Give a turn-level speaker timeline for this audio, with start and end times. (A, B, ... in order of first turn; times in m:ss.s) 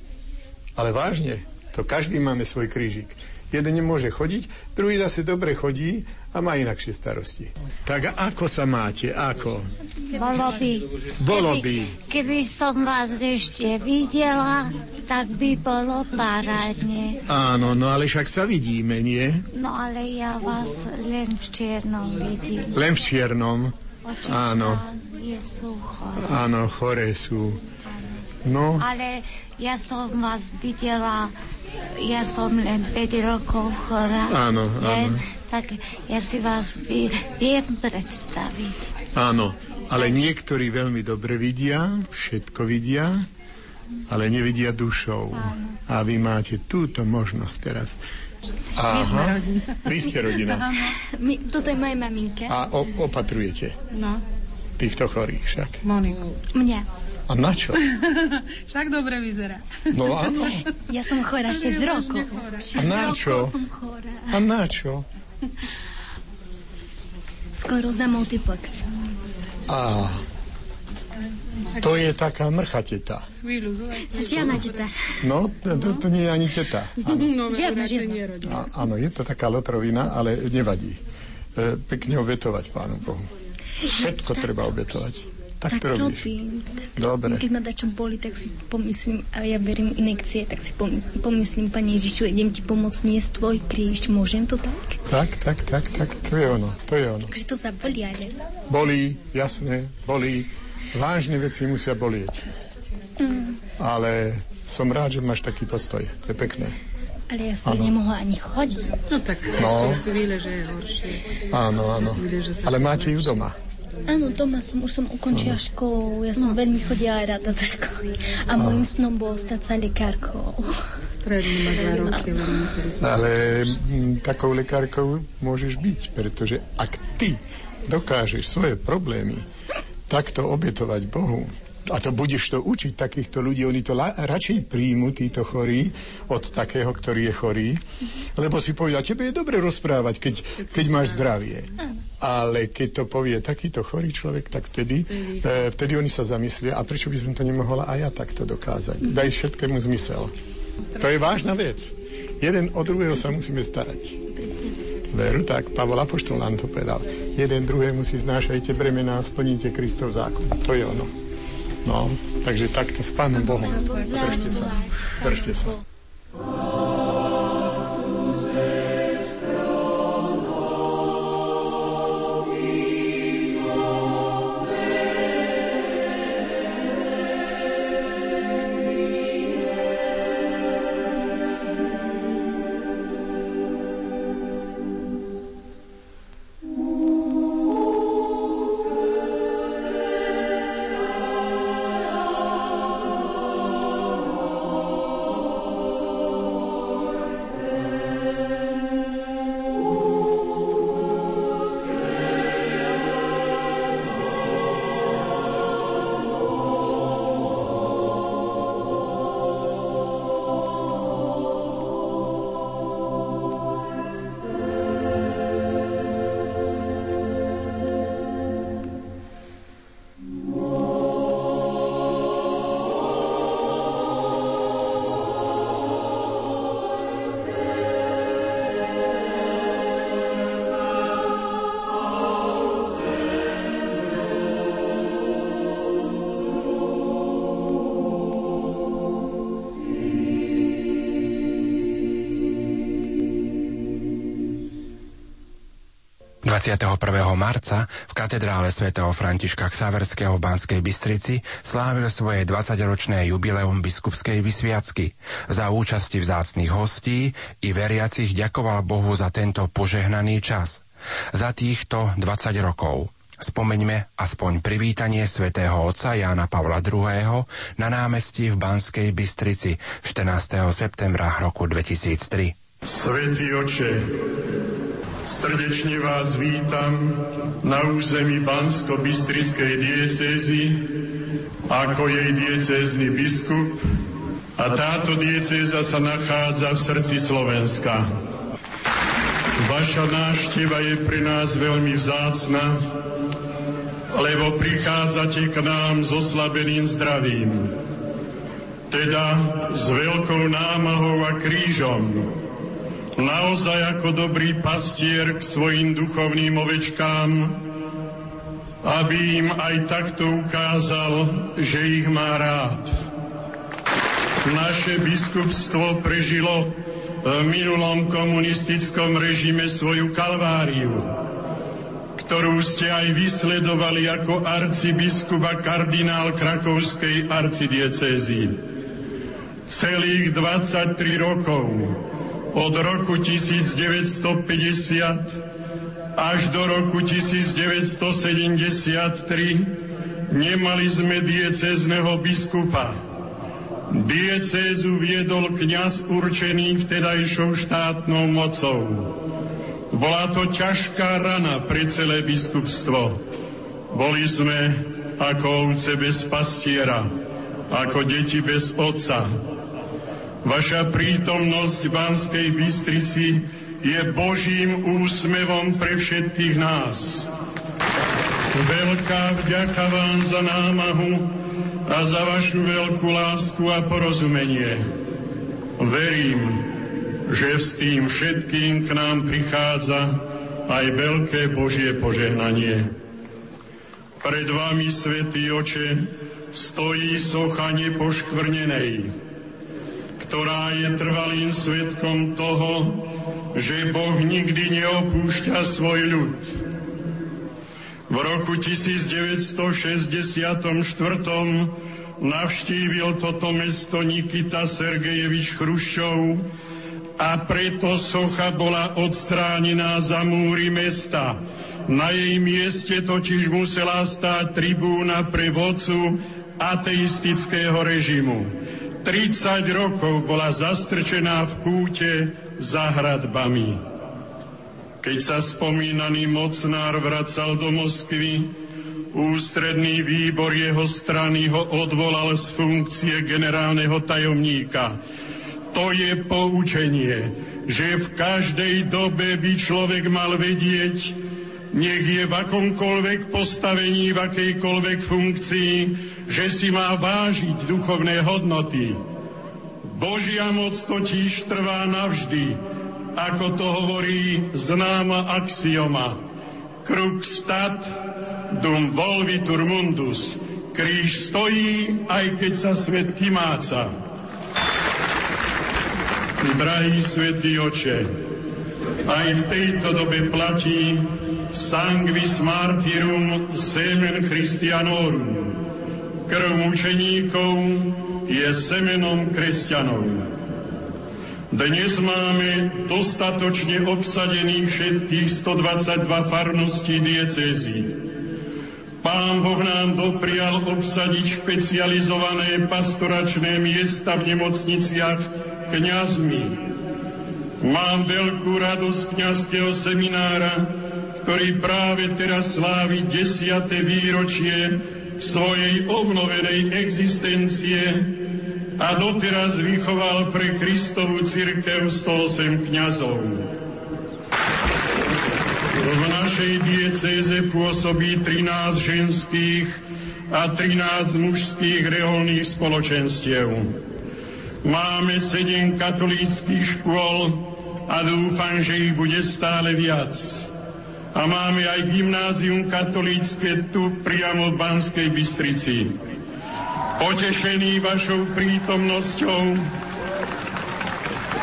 0:00.8-0:09.7 A
0:10.1-0:17.2 B
0:11.2-0:11.9 A
0:17.3-0:19.4 A
0:19.5-0:22.8 B
0:22.7-0:23.7 A
0:24.0-0:26.5 B
0:24.2-0:24.8 A
0:26.2-0:27.6 A
0:28.4-0:28.9 A
0:28.8-0:31.3 B
0:32.0-0:38.9 B
0:34.3-0:35.2 A
0:39.1-0:43.2 A
0:44.1-0:48.0 A
0:48.8-0:50.7 A
0:51.0-0:52.6 C
0:52.5-0:53.8 A
0:54.8-0:55.8 A
0:55.8-0:56.3 D
0:56.5-0:56.9 C
0:57.3-0:57.8 A
0:58.0-0:59.7 D
0:59.9-1:00.6 A
1:00.9-1:04.4 C
1:01.6-1:02.6 D
1:02.8-1:03.6 A
1:04.3-1:05.0 A
1:07.5-1:08.8 C
1:09.7-1:10.2 A
1:11.8-1:13.2 A
1:13.4-1:14.8 D
1:14.1-1:14.9 C
1:15.2-1:17.3 A
1:17.0-1:18.6 D
1:17.4-1:18.0 C
1:18.4-1:21.0 A
1:21.6-1:23.3 A
1:23.8-1:24.7 C
1:23.9-1:26.3 A
1:25.7-1:35.0 C
1:27.0-1:27.4 A
1:35.1-1:37.3 A
1:37.3-1:38.4 C
1:38.7-1:42.4 A
1:43.2-1:43.6 C
1:43.8-1:46.8 A
1:47.3-1:49.0 C
1:47.6-1:47.9 A
1:49.1-1:51.2 D
1:49.6-1:50.0 A
1:51.5-1:53.6 A
1:52.2-1:53.2 D
1:54.1-2:00.9 C
1:55.3-1:55.6 A
1:58.6-1:58.9 A
2:01.1-2:03.2 D
2:02.0-2:02.6 C
2:03.0-2:09.4 A
2:10.1-2:17.8 A
2:18.4-2:30.3 A
2:31.0-2:34.2 A
2:34.3-2:34.9 C
2:35.1-2:41.1 A
2:41.8-2:45.7 A
2:43.4-2:45.7 C
4:06.4-4:32.6 E
4:32.8-4:34.1 F
4:35.2-4:40.9 F
4:41.7-4:43.9 F
4:44.6-4:48.1 F
4:49.6-4:52.8 F
4:54.1-4:57.7 F
4:58.9-5:02.3 F
5:03.2-5:07.6 F
5:08.8-5:13.0 F
5:14.4-5:21.1 F
5:22.2-5:28.6 F
5:29.7-5:32.0 F
5:32.5-5:35.4 F
5:36.2-5:39.7 F
5:40.3-5:43.0 F
5:43.9-5:49.2 F
5:49.9-5:53.2 F
5:53.9-5:57.1 F
5:57.7-5:59.3 F
6:00.4-6:07.3 F
6:08.5-6:11.3 F
6:11.9-6:14.9 F
6:15.8-6:16.7 F
6:17.3-6:22.9 F
6:24.2-6:29.1 F
6:30.2-6:36.6 F
6:38.1-6:46.5 F
6:47.2-7:03.8 F
7:05.0-7:08.5 F
7:09.1-7:15.0 F
7:15.7-7:21.2 F
7:21.7-7:29.0 F
7:29.8-7:32.6 F
7:33.1-7:36.2 F
7:36.8-7:38.0 F
7:38.5-7:43.9 F
7:46.4-7:48.1 F
7:49.0-7:55.6 F
7:56.3-8:00.3 F
8:01.5-8:08.0 F
8:09.0-8:16.6 F
8:17.6-8:28.1 F
8:28.8-8:33.5 F
8:35.8-8:43.8 F
8:44.6-8:50.5 F
8:51.1-8:56.0 F
8:57.0-8:59.7 F